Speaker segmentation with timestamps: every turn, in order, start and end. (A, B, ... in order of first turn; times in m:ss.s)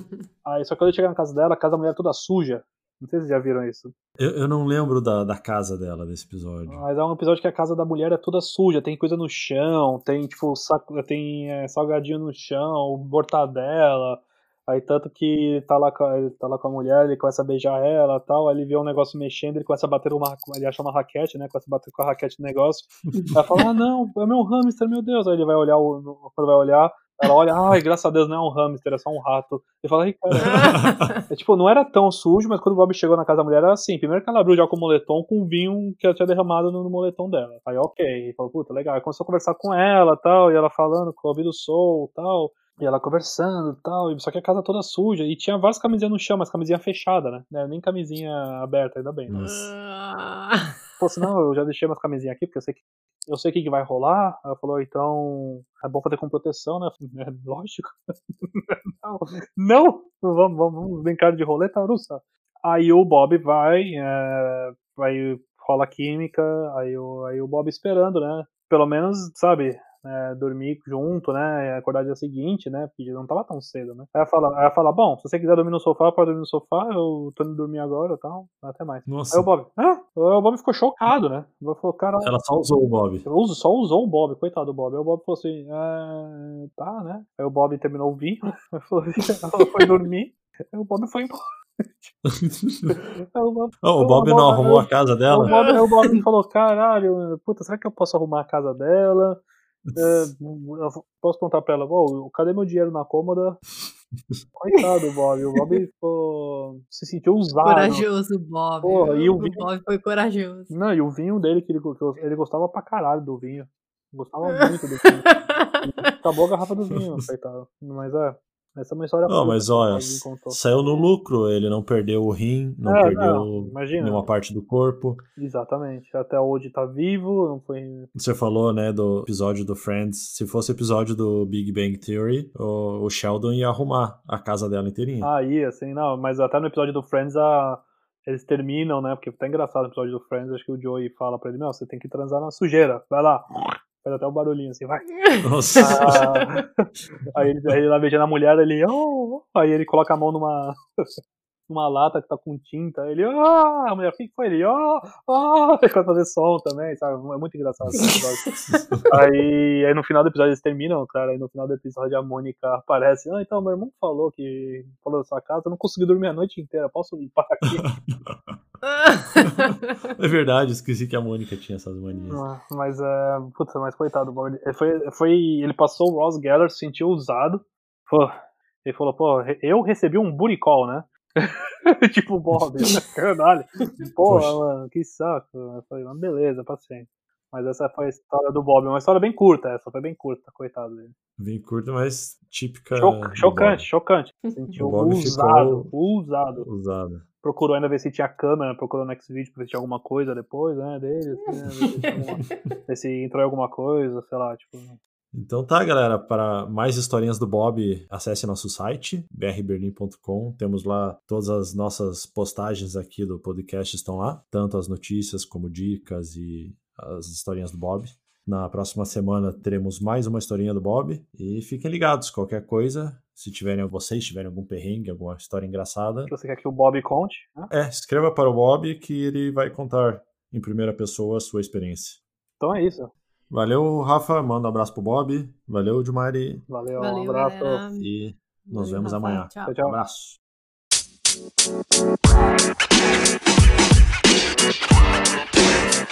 0:00.4-0:03.9 A
0:04.2-0:06.8 B
0:06.7-0:30.7 A
0:30.5-0:31.1 B
0:30.5-0:31.2 C
0:31.3-0:49.6 A
0:49.3-0:49.7 B
0:49.4-0:50.8 C
0:51.0-1:22.4 A
1:19.1-1:19.5 B
1:22.2-1:23.3 B
1:23.2-1:32.2 A
1:32.3-1:32.9 B
1:32.9-1:39.4 A
1:33.8-1:35.6 B
1:35.5-1:36.2 C
1:40.0-1:43.6 A
1:44.6-1:48.1 A
1:47.6-1:50.7 C
1:48.8-1:49.7 A
1:50.7-2:00.6 A
1:54.4-1:56.1 C
1:59.3-2:05.2 B
2:02.8-2:04.3 A
2:05.4-2:08.1 A
2:08.2-2:15.3 B
2:15.2-2:25.1 A
2:25.4-2:26.2 B
2:25.7-2:30.8 A
2:31.7-2:38.6 A
2:37.8-2:39.1 B
2:39.1-2:47.9 A
2:47.8-2:48.6 B
2:48.8-2:49.6 C
2:50.1-2:52.4 B
2:52.3-2:58.3 A
2:58.8-3:11.1 A
3:04.2-3:04.6 B
3:11.4-3:13.8 B
3:13.0-3:16.7 A
3:14.8-3:15.9 B
3:16.6-3:17.2 B
3:17.4-3:25.0 A
3:25.3-3:46.3 B
3:46.3-3:47.7 A
3:47.7-3:52.2 B
3:52.6-3:53.1 A
3:53.5-3:56.6 B
3:56.7-3:57.8 A
3:57.0-3:58.1 C
3:58.0-4:00.4 B
3:58.6-3:59.8 C
3:59.6-4:00.0 A